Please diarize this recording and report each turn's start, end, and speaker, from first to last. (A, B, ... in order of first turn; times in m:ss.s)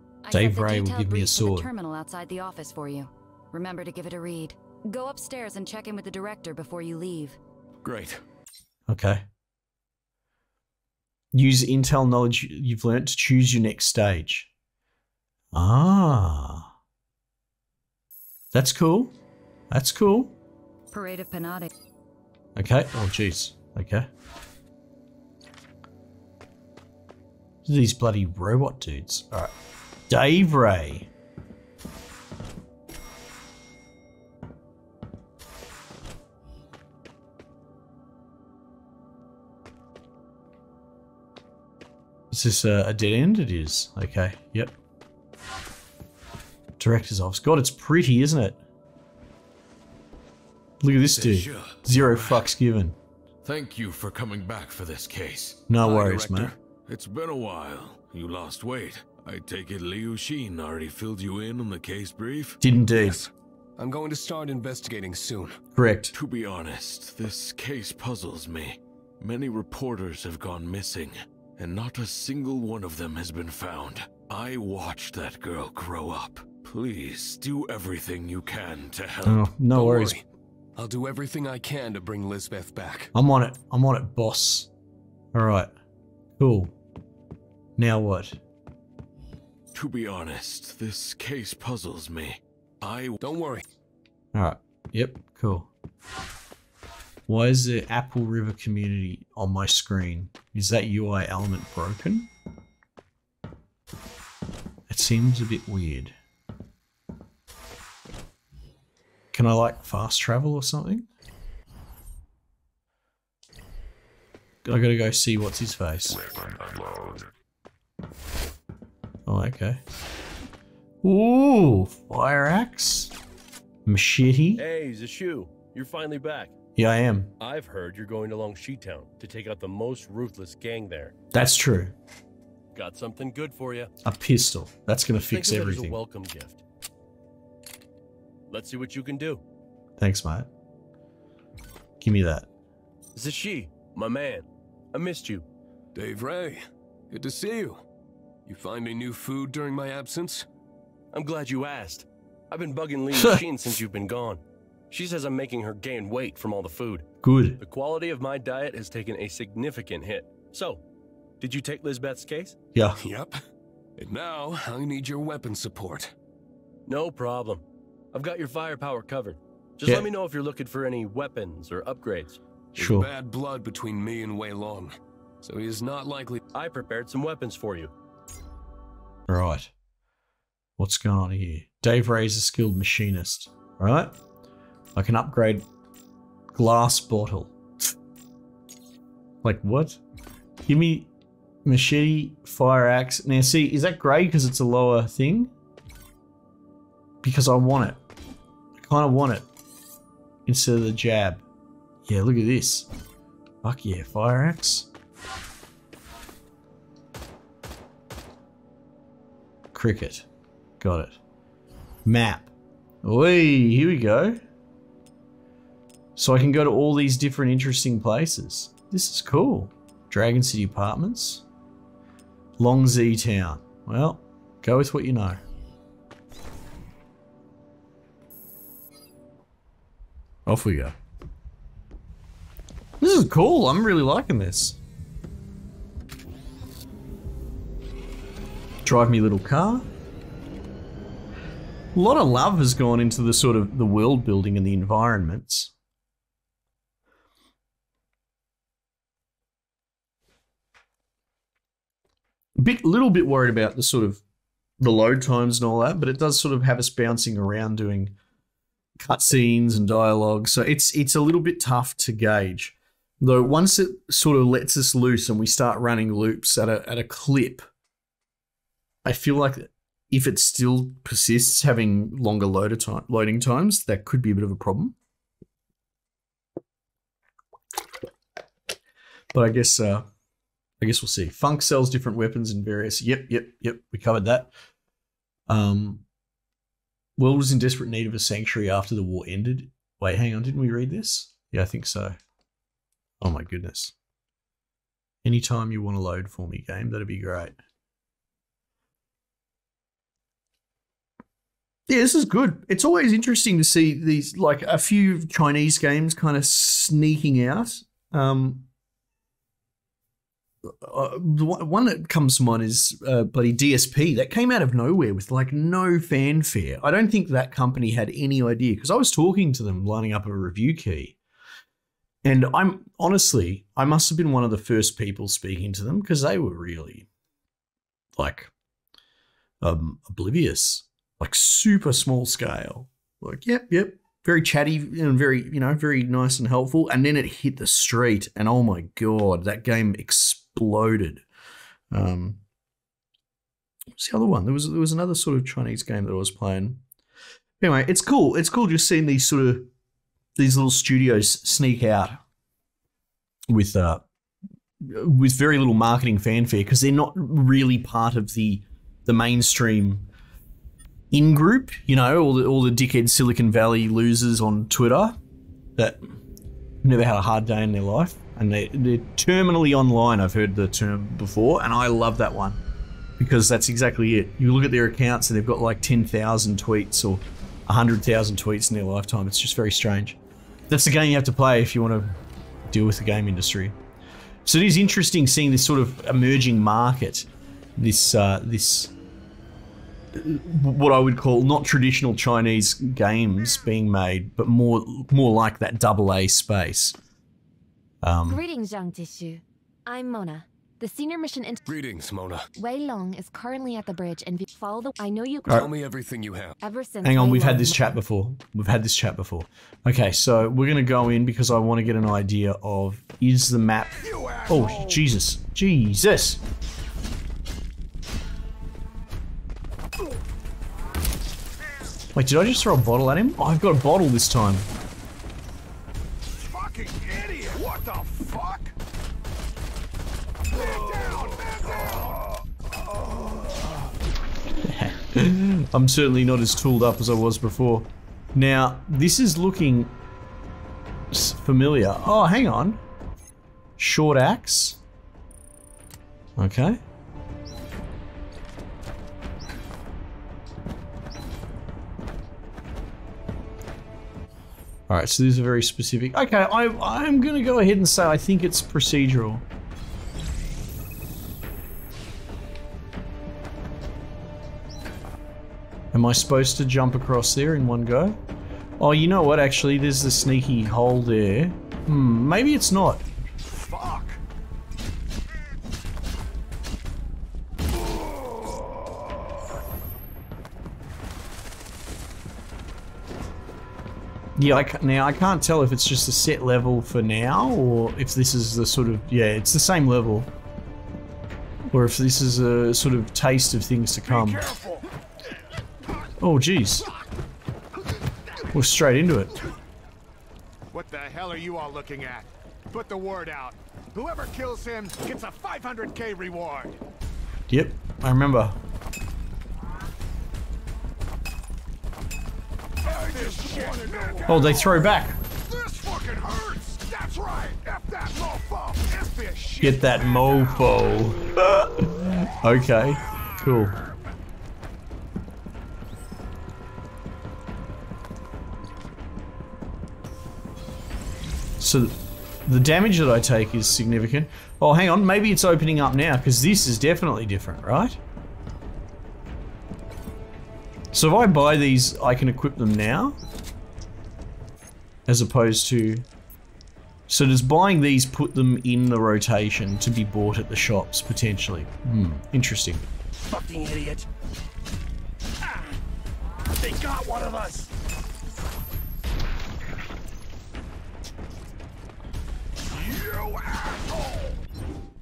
0:00.2-0:07.4 A
0:00.3-0:01.7 B
0:07.8-0:08.2 C
0:08.9-0:09.2 B
0:11.3-0:14.5 B
0:15.5-0:16.7 B
0:18.5-0:19.1 B
0:19.7-0:20.4 B
0:20.9-0:21.7 A
0:22.6-0:24.1 B
0:27.6-0:29.5 B
0:30.1-0:31.1 B
0:42.3-0:44.7 B
0:46.8-0:48.6 B
0:50.8-0:53.0 B
0:51.1-0:51.8 C
0:53.4-0:55.7 D
0:55.7-0:56.6 B
0:55.8-0:56.6 C
0:56.9-1:02.6 D
1:02.6-1:03.2 B
1:02.9-1:05.6 C
1:05.7-1:06.1 B
1:06.1-1:19.4 D
1:19.2-1:20.2 B
1:19.7-1:20.2 C
1:20.8-1:23.1 C
1:23.1-1:24.7 B
1:25.3-1:25.7 B
1:26.4-1:26.7 B
1:27.8-1:28.4 B
1:29.7-1:33.2 D
1:33.2-1:33.6 C
1:34.3-1:35.7 B
1:37.3-1:42.3 B
1:44.9-1:46.1 B
1:49.3-1:51.1 B
1:54.6-1:56.2 B
1:59.3-1:59.8 B
2:01.0-2:03.1 B
2:03.9-2:04.6 B
2:04.6-2:06.6 E
2:06.8-2:07.3 B
2:07.4-2:11.1 E
2:11.3-2:11.9 B
2:12.7-2:13.9 E
2:14.0-2:16.0 B
2:15.2-2:16.6 E
2:18.5-2:19.4 E
2:20.0-2:20.5 B
2:22.0-2:22.5 B
2:23.2-2:25.4 E
2:25.9-2:27.8 C
2:28.4-2:30.5 C
2:31.1-2:37.1 E
2:33.1-2:33.4 B
2:37.2-2:37.6 B
2:37.6-2:40.8 E
2:41.4-2:42.6 E
2:43.0-2:43.4 C
2:44.0-2:46.1 C
2:46.9-2:52.4 E
2:52.8-2:53.1 B
2:52.8-2:56.4 C
2:56.5-2:57.9 E
2:59.3-2:59.7 B
3:00.8-3:04.1 B
3:05.0-3:05.6 B
3:06.5-3:07.9 B
3:09.4-3:10.0 B
3:10.6-3:11.1 B
3:11.6-3:15.5 B
3:17.2-3:18.0 B
3:18.8-3:19.4 B
3:20.4-3:21.4 B
3:22.1-3:22.9 B
3:23.6-3:24.9 B
3:29.7-3:30.3 B
3:30.8-3:31.2 B
3:32.0-3:32.5 B
3:33.0-3:34.4 B
3:36.2-3:41.4 B
3:42.6-3:45.4 B
3:50.4-3:50.9 B
3:53.0-3:54.8 B
3:58.8-3:59.9 B
4:01.9-4:05.7 B
4:12.6-4:14.2 B
4:14.8-4:18.2 B
4:19.0-4:27.6 B
4:29.0-4:35.0 B
4:39.3-4:40.1 B
4:40.8-4:44.5 B
4:45.5-4:46.0 B
4:47.2-4:52.2 B
4:53.2-4:53.9 B
4:55.2-4:57.6 B
5:01.9-5:08.7 B
5:10.6-5:21.2 B
5:22.2-5:27.1 B
5:28.2-5:28.5 B
5:29.6-5:41.2 B
5:41.9-5:42.4 B
5:44.0-5:46.8 B
5:47.6-5:49.7 B
5:50.4-5:52.2 B
5:53.5-5:54.1 B
5:54.8-6:00.1 B
6:01.1-6:05.2 B
6:05.8-6:06.2 B
6:06.8-6:12.6 B
6:13.2-6:20.2 B
6:20.7-6:22.2 B
6:22.7-6:23.8 B
6:24.4-6:28.9 B
6:30.1-6:37.0 B
6:38.0-6:38.4 B
6:38.3-6:41.6 F
6:41.6-6:42.4 C
6:42.6-6:45.7 F
6:45.5-6:46.6 C
6:46.6-6:47.9 F
6:47.0-6:56.4 B
6:54.0-6:55.1 G
7:02.1-7:04.7 B
7:06.3-7:08.7 G
7:10.5-7:13.8 G
7:14.6-7:20.0 B
7:21.1-7:22.8 B
7:23.8-7:24.8 B
7:26.4-7:26.8 B
7:34.9-7:39.4 B
7:45.9-7:48.2 B
7:48.8-7:53.0 B
7:53.4-7:54.2 G
7:58.2-7:58.6 G
8:04.4-8:10.3 B
8:11.7-8:14.4 B
8:14.1-8:14.9 G
8:16.2-8:16.9 B
8:18.5-8:19.4 B
8:20.7-8:26.8 G
8:27.5-8:28.6 B
8:32.8-8:41.0 G
8:34.3-8:35.2 B
8:39.6-8:43.8 B
8:43.0-8:43.9 G
8:51.6-8:58.0 B
9:00.9-9:03.2 B
9:05.1-9:06.0 B
9:07.1-9:12.9 B
9:13.3-9:14.1 E
9:17.2-9:17.4 E
9:22.7-9:24.4 G